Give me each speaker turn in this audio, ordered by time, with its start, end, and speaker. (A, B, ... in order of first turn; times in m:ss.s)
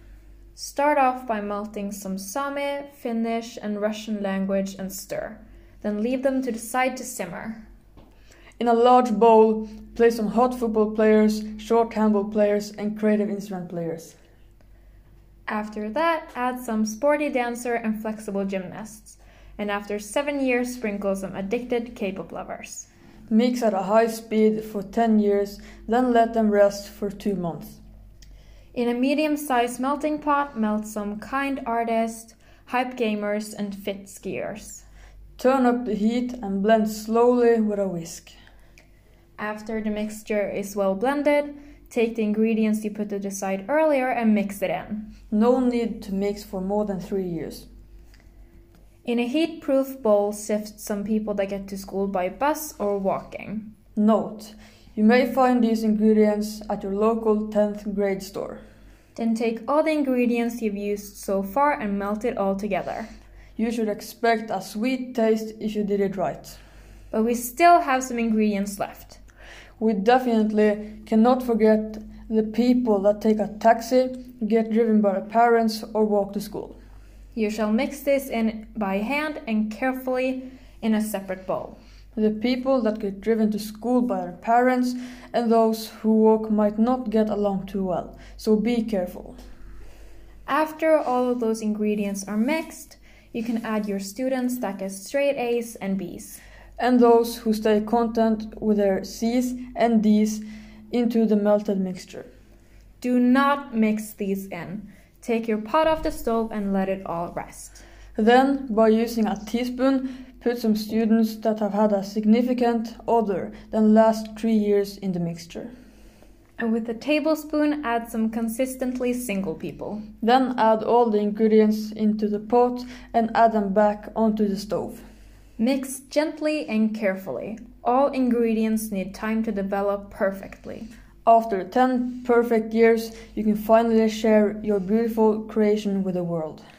0:00.5-0:07.6 A
0:08.6-0:14.2 B
0:15.5-0:22.9 A
0:23.3-0:27.8 B
0:28.7-0:34.8 A
0:35.4-0:38.3 B
0:39.4-0:45.1 A
0:45.3-0:47.7 B
0:49.0-0:53.7 A
0:54.0-0:58.6 B
0:59.2-1:03.1 A
1:03.6-1:06.6 B
1:07.1-1:09.2 A
1:09.8-1:16.8 B
1:17.3-1:21.8 A
1:22.1-1:29.4 B
1:30.4-1:36.4 A
1:36.8-1:42.3 B
1:43.0-1:47.8 A
1:48.1-1:55.7 B
1:56.6-2:00.0 A
2:00.2-2:05.0 B
2:05.6-2:10.9 A
2:11.2-2:16.6 B